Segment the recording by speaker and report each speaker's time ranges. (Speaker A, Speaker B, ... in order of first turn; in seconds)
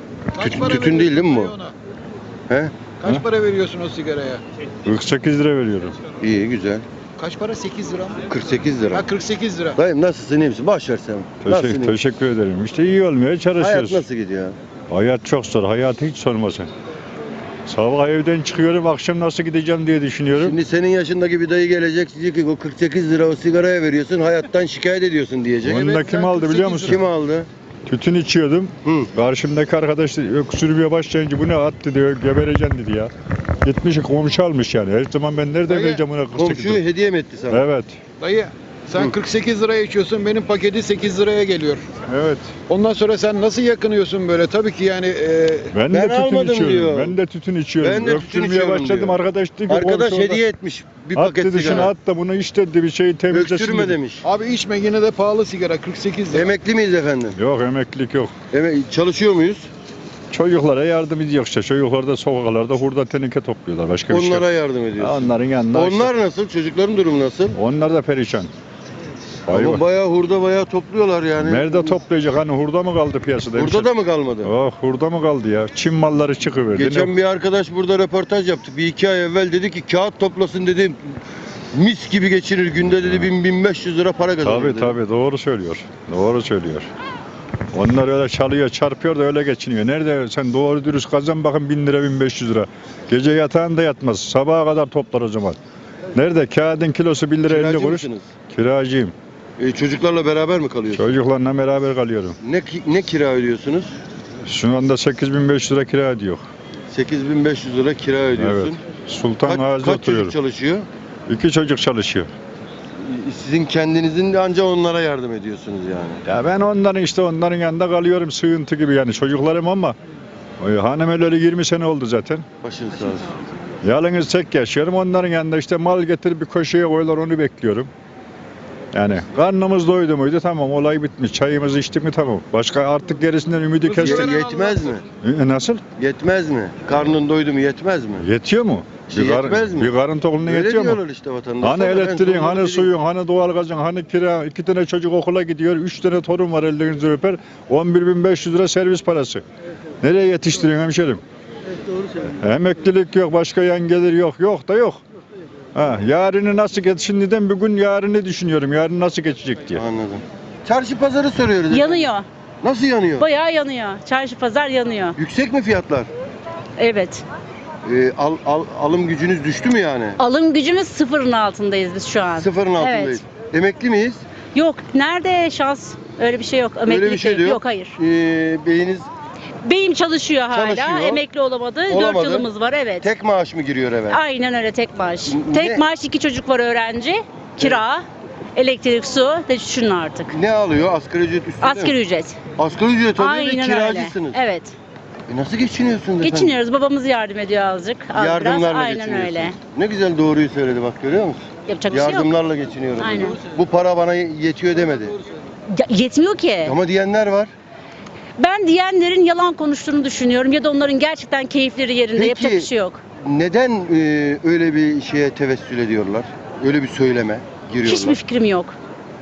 Speaker A: 0.3-1.7, 3.0-4.4, 7.2-8.2, 8.9-9.8, 35.7-36.0, 38.2-41.8, 42.7-45.7, 54.2-56.5
Speaker B: 0.4-1.5, 2.5-2.7, 6.2-6.8, 8.3-9.0, 9.8-11.9, 13.6-14.6, 20.4-27.5, 36.3-37.6, 45.9-47.1, 47.8-49.2, 49.7-51.9, 53.3-54.2, 56.3-57.4, 58.5-59.7, 64.1-67.6, 69.5-72.0, 73.5-74.5, 76.7-81.0, 81.7-84.9, 97.5-98.3, 99.6-101.0, 102.4-103.9, 106.9-108.8, 109.4-110.8, 113.0-116.2, 122.6-123.3, 133.9-135.0, 136.0-138.2, 139.1-142.9, 159.7-162.1, 162.6-163.2, 165.2-166.1, 167.8-170.2, 172.4-174.2, 176.9-179.1, 180.5-181.2, 181.9-182.5, 183.0-184.2, 185.3-185.8, 190.3-191.9, 192.6-194.4, 195.3-196.6, 198.1-205.2, 206.6-207.5, 212.2-212.7, 213.2-218.2
Speaker C: 4.8-6.0, 11.4-14.0, 14.9-16.7, 17.6-20.6, 25.6-27.0, 27.9-33.1, 33.6-36.8, 37.5-38.0, 42.1-42.5, 45.7-50.4, 51.1-54.0, 57.4-58.3, 60.3-64.4, 65.0-66.1, 67.5-68.5, 69.5-69.8, 71.4-73.9, 74.4-77.1, 84.4-86.9, 87.7-95.6, 96.1-99.1, 100.9-102.3, 104.5-106.4, 108.3-110.3, 111.3-112.3, 116.3-120.0, 120.6-122.4, 123.8-127.9, 128.9-134.5, 135.2-135.8, 138.2-141.0, 141.6-149.4, 150.0-151.2, 152.4-155.0, 155.7-159.8
Speaker D: 161.7-162.2, 163.2-165.2, 166.8-167.2, 170.2-173.2, 174.5-177.9, 179.6-183.1, 184.1-188.0, 188.6-190.3, 191.6-192.4, 193.2-194.7, 196.2-199.6, 201.7-202.3, 203.0-203.4, 205.7-206.8, 208.4-213.0, 217.8-218.8